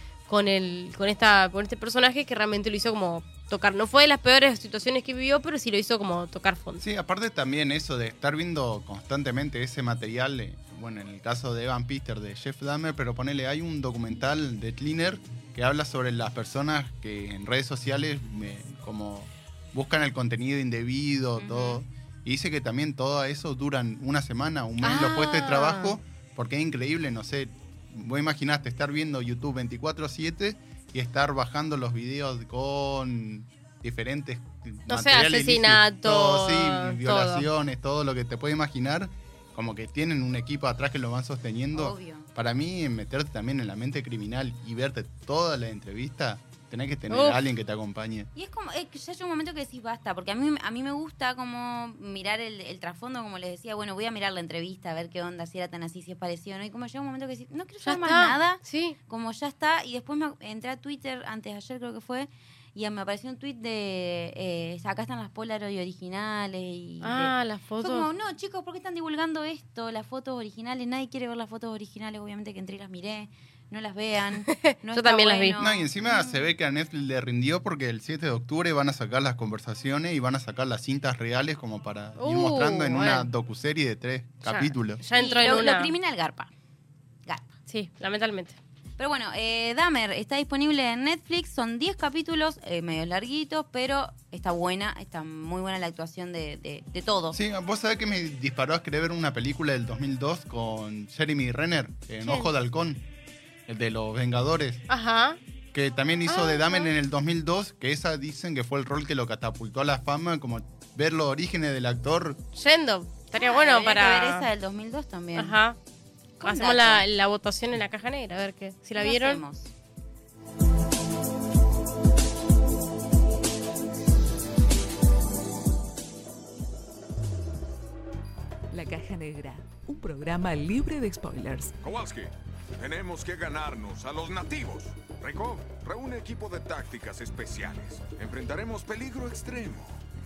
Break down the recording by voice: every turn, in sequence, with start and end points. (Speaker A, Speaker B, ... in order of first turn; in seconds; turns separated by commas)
Speaker A: 0.3-6.8, Speaker B: 6.8-48.3, Speaker C: 21.4-21.8, Speaker A: 24.8-26.0, Speaker A: 34.9-37.5, Speaker C: 41.7-42.3, Speaker A: 47.1-47.4, Speaker C: 48.4-76.4, Speaker A: 57.8-59.0, Speaker A: 67.0-68.1, Speaker A: 74.9-75.6, Speaker B: 75.6-85.0, Speaker A: 82.2-83.3, Speaker A: 84.4-85.9, Speaker C: 85.2-86.5, Speaker C: 87.3-87.5, Speaker A: 87.7-88.6, Speaker C: 89.0-97.4, Speaker B: 97.3-103.0, Speaker A: 102.2-102.5, Speaker B: 103.7-104.8, Speaker A: 104.9-105.4, Speaker B: 105.7-112.4, Speaker A: 106.3-106.9, Speaker A: 112.5-114.5, Speaker C: 113.4-115.6, Speaker A: 115.4-115.8, Speaker C: 116.4-117.0, Speaker A: 116.4-119.4, Speaker C: 119.0-119.7, Speaker D: 128.7-131.8, Speaker E: 131.8-132.3, Speaker E: 132.8-139.9